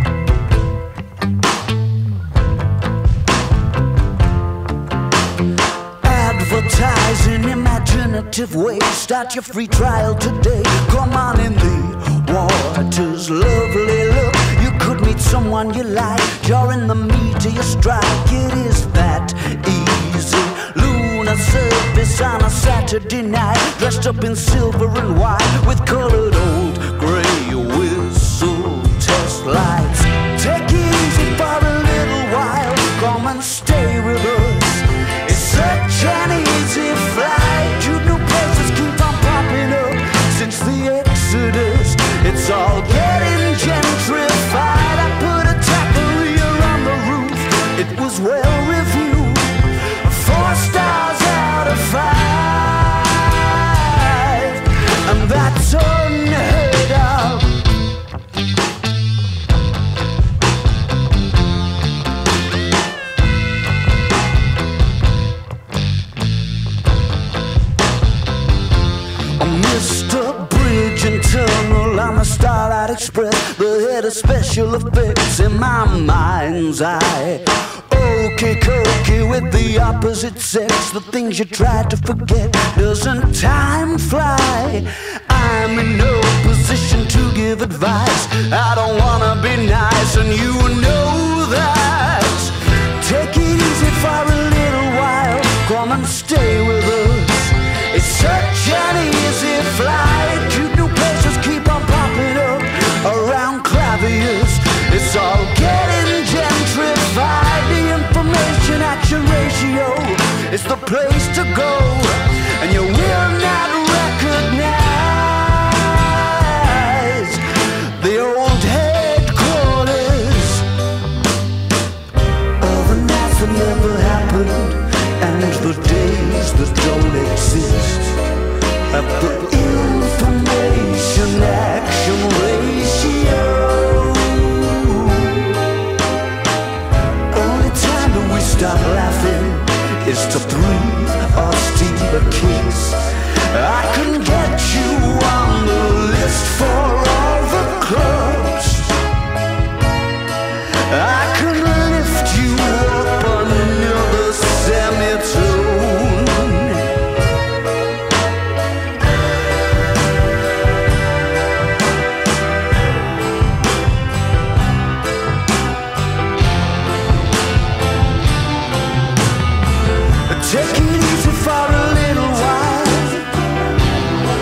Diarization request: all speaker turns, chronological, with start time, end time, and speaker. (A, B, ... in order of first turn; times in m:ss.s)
0:06.0-0:57.6 A
1:09.4-2:00.7 A
2:02.6-2:08.2 A
2:08.9-2:15.6 A
2:17.3-2:29.0 A
2:30.9-2:36.9 A
2:50.2-2:53.4 A